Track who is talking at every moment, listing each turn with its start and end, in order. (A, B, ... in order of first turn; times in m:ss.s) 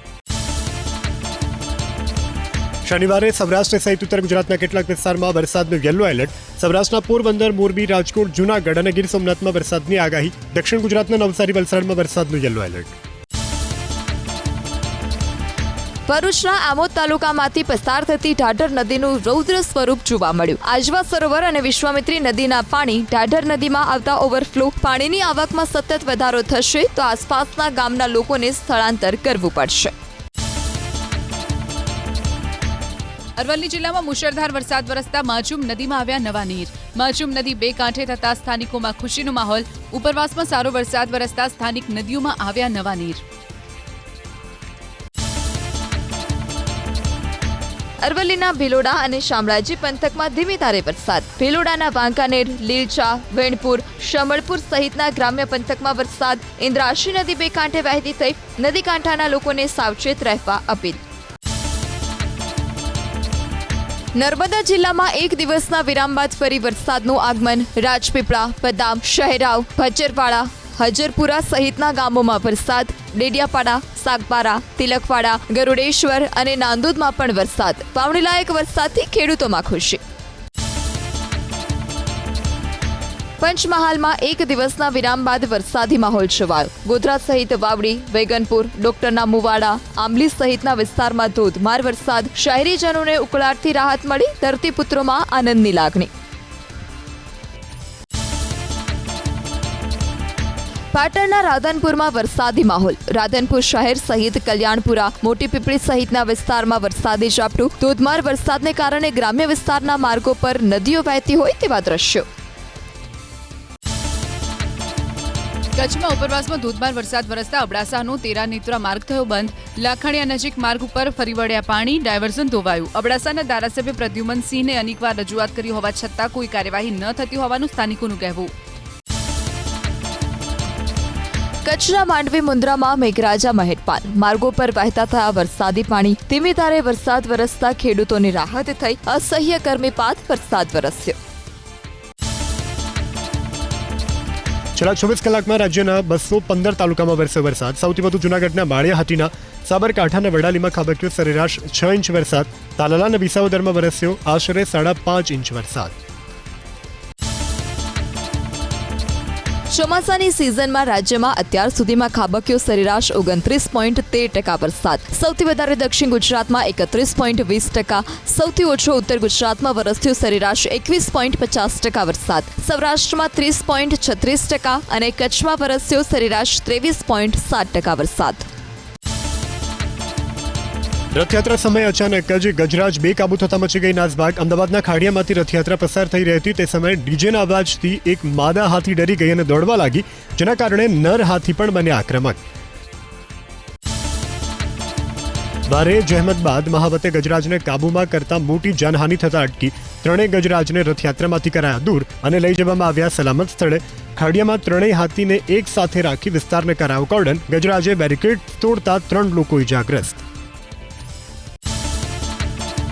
0:02.8-0:13.0 A
0:16.1-0:29.9 B
0:33.4-0:43.2 C
0:48.0-1:01.0 B
1:04.2-1:20.0 B
1:23.4-1:36.1 B
1:40.9-1:52.2 B
1:55.8-2:08.5 C
2:11.6-2:21.2 B
2:24.8-2:35.9 A
2:39.7-2:58.5 B
3:01.1-3:12.4 A
3:15.7-3:30.2 A